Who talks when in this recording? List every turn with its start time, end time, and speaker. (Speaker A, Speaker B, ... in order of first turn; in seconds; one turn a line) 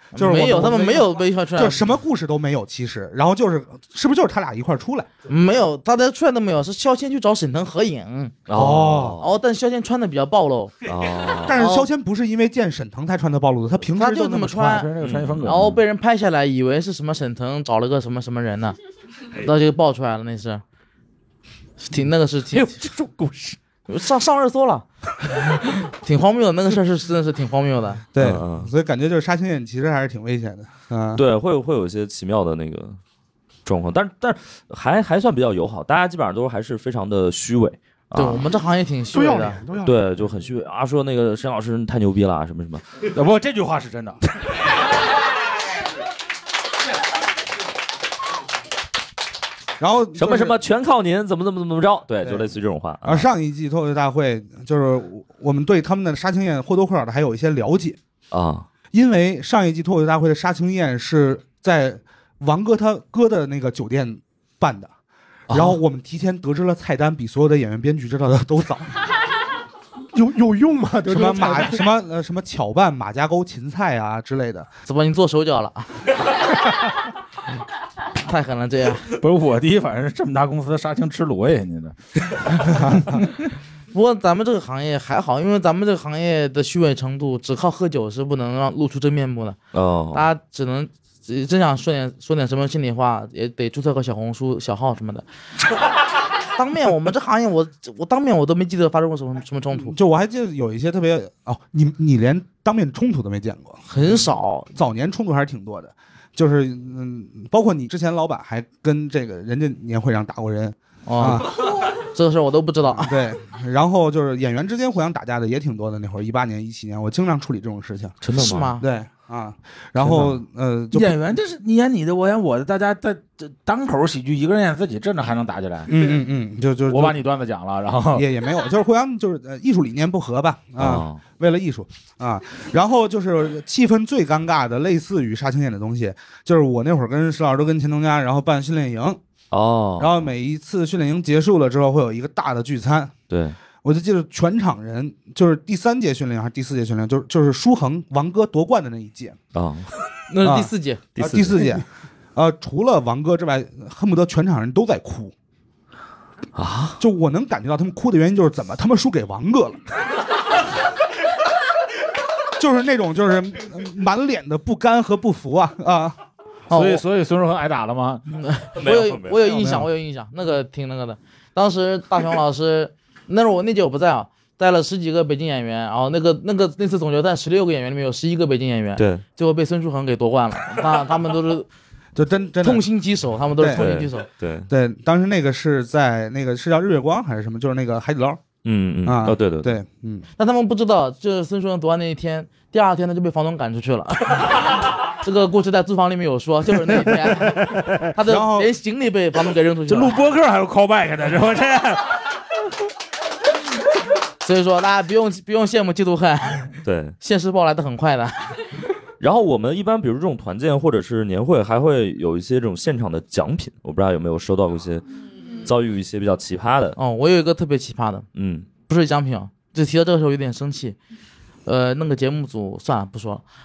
Speaker A: 0.1-1.9
Speaker B: 0.2-5.1
Speaker A: 5.3-8.4
Speaker C: 8.5-9.3
Speaker B: 8.5-9.2
Speaker A: 9.2-10.8
Speaker C: 10.9-11.6
Speaker B: 11.4-14.8
Speaker A: 11.6-11.9
Speaker A: 13.9-14.9
Speaker D: 14.5-15.8
Speaker C: 15.0-15.8
Speaker A: 15.4-18.8
Speaker A: 19.4-20.6
Speaker A: 21.8-22.7
Speaker C: 22.5-23.6
Speaker A: 23.9-24.9
Speaker A: 25.5-28.0
Speaker B: 28.1-31.2
Speaker C: 28.2-28.7
Speaker C: 31.1-33.0
Speaker C: 33.6-38.5
Speaker A: 38.2-39.6
Speaker E: 39.1-40.3
Speaker C: 39.8-42.9
Speaker D: 43.0-44.2
Speaker B: 49.8-50.6
Speaker C: 50.2-53.3
Speaker B: 53.0-58.0
Speaker C: 58.3-58.7
Speaker B: 58.9-64.9
Speaker C: 65.5-65.8
Speaker B: 65.5-68.9
Speaker E: 70.1-71.9
Speaker B: 71.1-74.7
Speaker A: 74.9-76.1
Speaker A: 78.2-79.0
Speaker D: 79.2-83.3
Speaker A: 83.9-89.6
Speaker C: 89.7-90.3
Speaker A: 90.1-95.2
Speaker A: 96.5-100.0
Speaker B: 99.8-104.2
Speaker A: 103.9-104.7
Speaker B: 104.7-111.5
Speaker A: 111.1-113.2
Speaker B: 112.9-121.2
Speaker C: 118.2-118.7
Speaker A: 118.4-118.8
Speaker D: 120.9-126.0
Speaker B: 125.9-127.2
Speaker D: 126.9-128.3
Speaker B: 128.1-139.2
Speaker C: 130.8-131.2
Speaker C: 139.5-140.2
Speaker B: 140.0-143.1
Speaker C: 143.3-143.6
Speaker B: 143.8-149.4
Speaker C: 149.5-149.9
Speaker A: 150.3-151.0
Speaker B: 150.4-155.3
Speaker C: 151.2-151.7
Speaker C: 156.6-157.0
Speaker B: 157.0-159.8
Speaker B: 162.6-166.2
Speaker A: 166.7-167.0
Speaker D: 166.7-168.2
Speaker A: 168.3-181.7
Speaker C: 168.8-169.6
Speaker B: 169.5-169.9
Speaker C: 179.0-179.2
Speaker B: 182.2-182.8
Speaker A: 182.6-184.3
Speaker B: 183.6-183.9
Speaker C: 183.8-184.7
Speaker B: 184.7-188.4
Speaker C: 188.7-189.7
Speaker B: 189.0-190.3
Speaker A: 190.4-200.2
Speaker D: 197.1-198.0
Speaker B: 198.2-198.7
Speaker D: 199.9-202.2
Speaker A: 204.4-208.7
Speaker C: 206.8-207.2
Speaker C: 209.2-215.1
Speaker C: 215.6-217.0
Speaker A: 217.0-218.3
Speaker C: 218.3-218.7
Speaker A: 218.9-221.0
Speaker A: 221.7-223.4